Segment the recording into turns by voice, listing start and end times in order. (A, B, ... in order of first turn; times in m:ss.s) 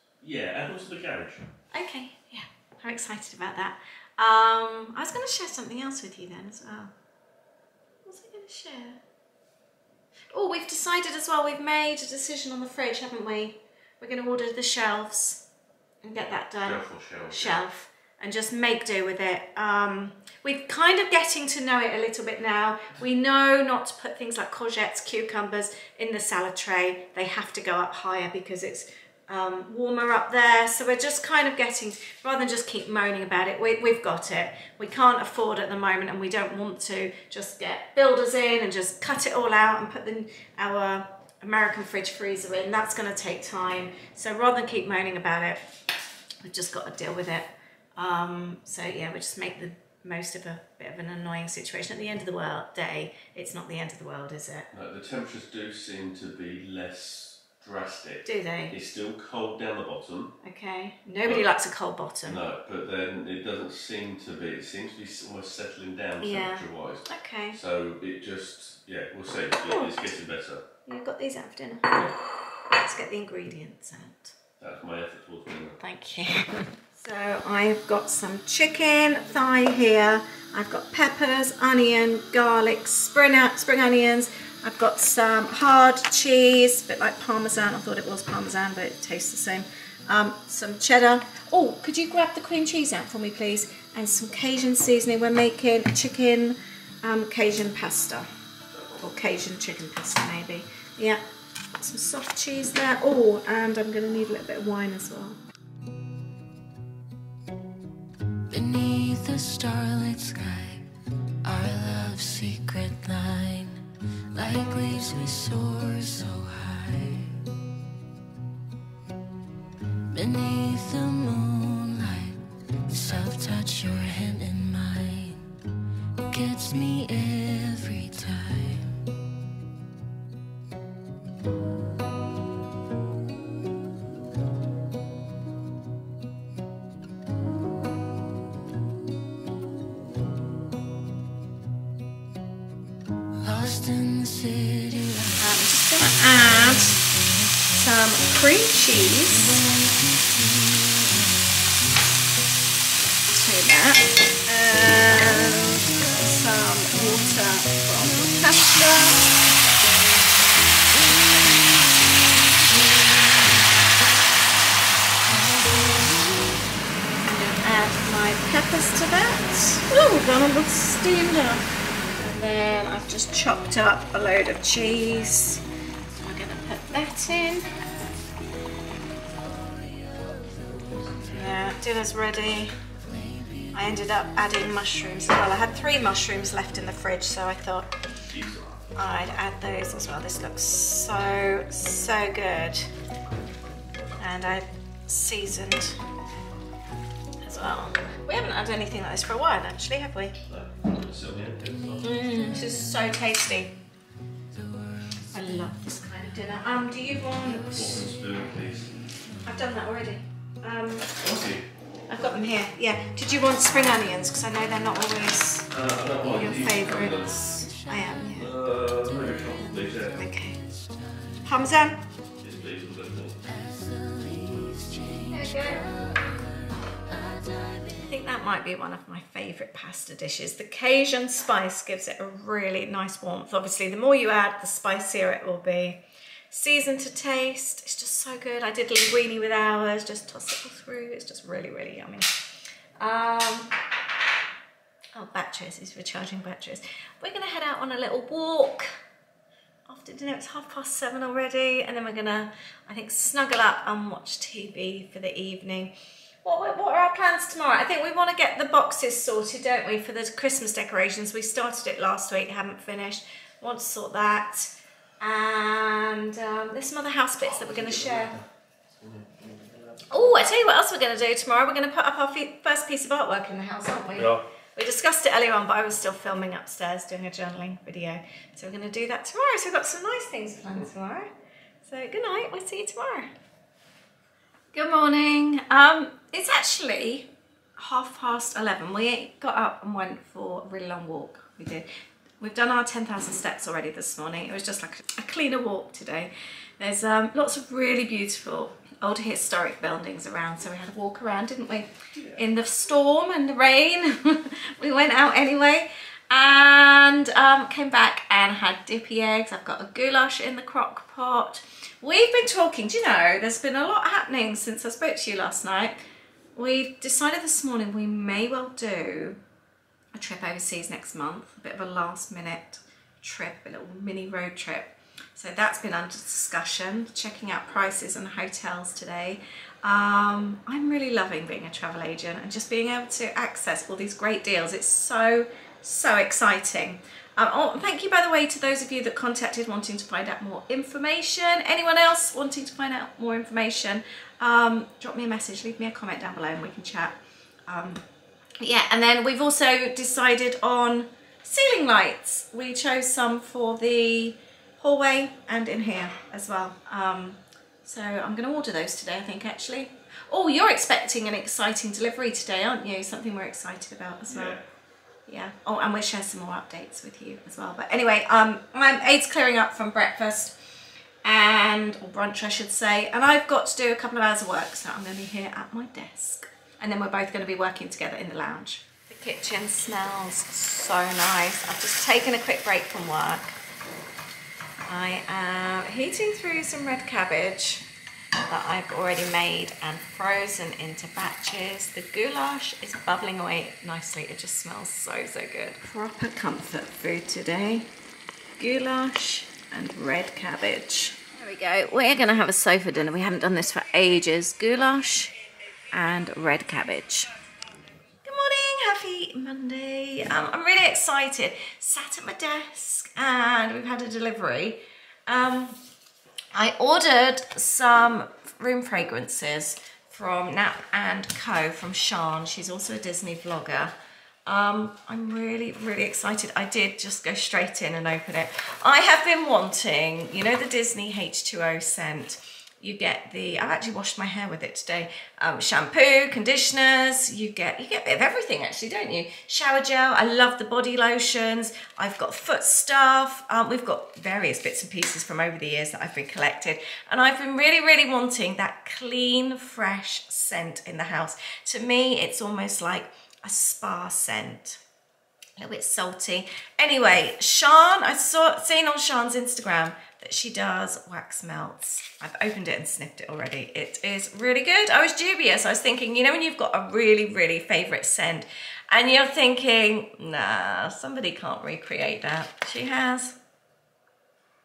0:00.2-0:01.5 A
0:01.7-0:06.9 B
0:08.0-0:09.0 B
0:10.3-0:15.4 B
0:16.0-0:45.8 B
0:16.6-0:17.6 A
0:46.4-0:54.7 B
0:54.7-1:00.3 A
0:58.2-0:58.7 B
1:00.4-1:02.4 B
1:02.2-1:10.6 A
1:06.2-1:07.6 B
1:09.7-1:10.1 B
1:10.8-1:14.3 B
1:14.6-1:15.8 A
1:15.8-1:38.3 B
1:38.7-1:39.0 A
1:39.0-1:41.2 B
1:41.7-1:45.4 B
1:48.5-1:50.9 C
1:51.4-1:57.4 C
2:00.1-2:05.5 C
2:06.3-2:09.0 C
2:23.4-2:25.4 C
2:25.4-2:27.0 B
2:27.7-2:29.4 B
2:29.3-2:31.5 C
2:33.3-2:39.2 B
2:45.3-2:46.6 C
2:47.2-2:55.6 B
2:56.2-2:57.8 B
2:59.3-3:01.5 C
3:01.3-3:02.7 B
3:03.0-3:04.0 C
3:03.7-3:07.9 B
3:08.3-3:09.1 A
3:08.9-3:12.9 B
3:14.2-3:16.0 B
3:17.4-3:20.4 B
3:20.5-3:22.1 A
3:21.8-3:22.9 C
3:22.0-3:23.7 B
3:24.5-3:25.7 C
3:25.3-3:28.0 B
3:27.7-3:28.9 A
3:29.4-3:31.1 B
3:31.2-3:31.7 A
3:32.1-3:35.7 B
3:35.7-3:37.4 A
3:36.2-3:38.5 B
3:37.6-3:38.2 C
3:38.3-3:40.2 A
3:38.9-3:41.5 C
3:40.1-3:40.6 B
3:41.4-3:42.0 B
3:42.4-3:43.4 A
3:43.4-3:48.1 C
3:45.3-3:45.9 B
3:48.0-4:02.3 B
4:03.0-4:03.7 B
4:05.1-4:09.0 B
4:09.9-4:28.4 B
4:27.4-4:28.4 A
4:29.0-4:30.0 A
4:30.1-4:41.3 B
4:34.2-4:34.4 A
4:41.8-4:43.3 B
4:44.7-4:51.9 B
4:52.4-5:16.0 B
5:02.1-5:02.4 A
5:16.5-5:19.4 B
5:20.1-5:48.0 B
5:48.6-6:04.6 B
6:04.3-6:04.6 A
6:05.3-6:10.6 B
6:11.2-6:23.6 B
6:24.9-6:27.8 B
6:28.4-6:37.9 B
6:38.6-6:45.3 B
6:45.9-6:47.3 B
6:48.2-6:55.8 B
6:56.5-7:03.9 B
7:04.4-7:34.8 B
7:35.6-7:53.4 B